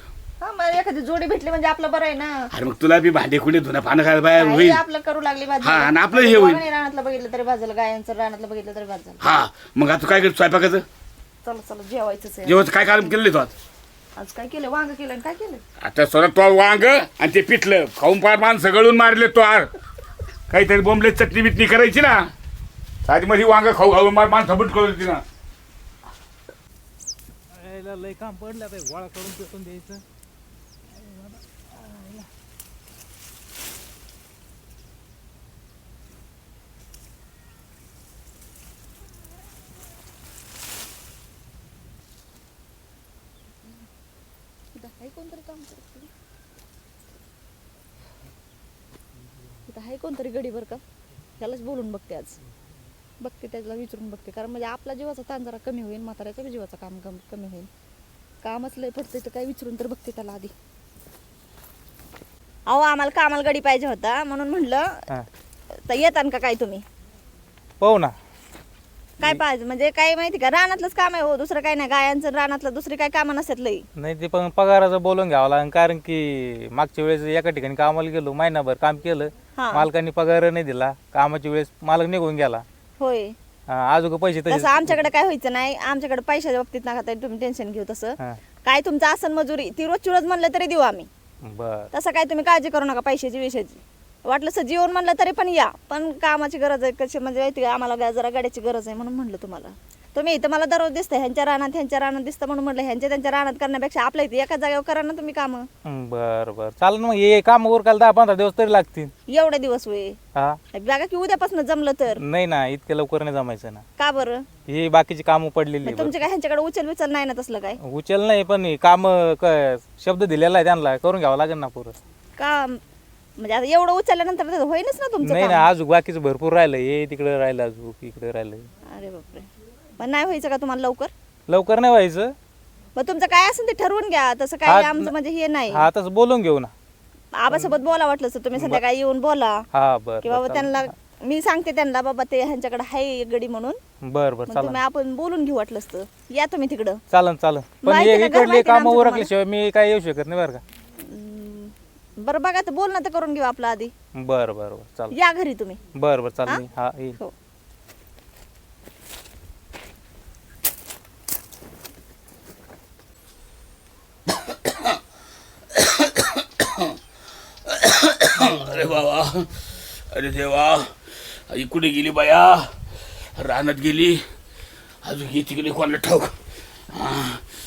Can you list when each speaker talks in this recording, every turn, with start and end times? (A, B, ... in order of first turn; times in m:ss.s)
0:00.4-0:02.5 A
0:02.5-0:04.8 B
0:04.4-0:09.2 A
0:05.6-0:06.6 B
0:09.2-0:10.8 B
0:11.4-0:12.7 A
0:12.4-0:13.5 B
0:14.2-0:15.6 A
0:15.8-0:19.7 B
0:20.5-0:22.2 B
0:23.0-0:25.2 B
0:27.5-0:30.0 C
0:31.0-0:32.3 C
0:44.7-0:46.1 A
0:49.7-0:50.8 A
0:51.4-0:52.4 A
0:53.2-0:57.7 A
0:58.4-1:00.5 A
1:02.7-1:04.8 A
1:05.9-1:06.8 A
1:07.8-1:08.1 C
1:09.2-1:13.8 A
1:14.0-1:22.6 C
1:19.6-1:19.9 A
1:23.0-1:23.3 A
1:23.7-1:25.0 C
1:24.5-1:31.1 A
1:31.4-1:31.9 C
1:31.9-1:45.7 A
1:45.8-1:49.1 C
1:49.3-1:50.2 A
1:50.7-1:52.2 A
1:52.2-1:53.8 C
1:54.0-1:54.4 A
1:54.7-1:56.1 C
1:55.8-1:57.8 A
1:57.8-2:01.9 C
2:02.4-2:02.8 A
2:03.4-2:05.7 A
2:05.2-2:08.7 C
2:08.9-2:09.5 A
2:10.0-2:11.1 A
2:11.5-2:12.3 C
2:13.0-2:15.9 A
2:14.6-2:15.1 C
2:15.7-2:16.7 C
2:17.3-2:19.6 A
2:18.6-2:18.8 C
2:19.7-2:20.9 C
2:20.2-2:23.8 A
2:24.1-2:24.8 C
2:24.5-2:27.0 A
2:27.1-2:30.6 C
2:27.8-2:29.3 A
2:31.0-2:33.9 A
2:34.2-2:35.1 C
2:35.1-2:35.8 A
2:35.9-2:37.2 C
2:44.6-2:44.9 B
2:45.7-2:47.0 B
2:47.6-2:49.5 B
2:48.3-2:49.0 C
2:50.1-2:50.9 B
2:51.5-2:52.7 B
2:53.4-2:54.2 B
2:55.0-2:56.3 B
2:56.9-2:57.4 B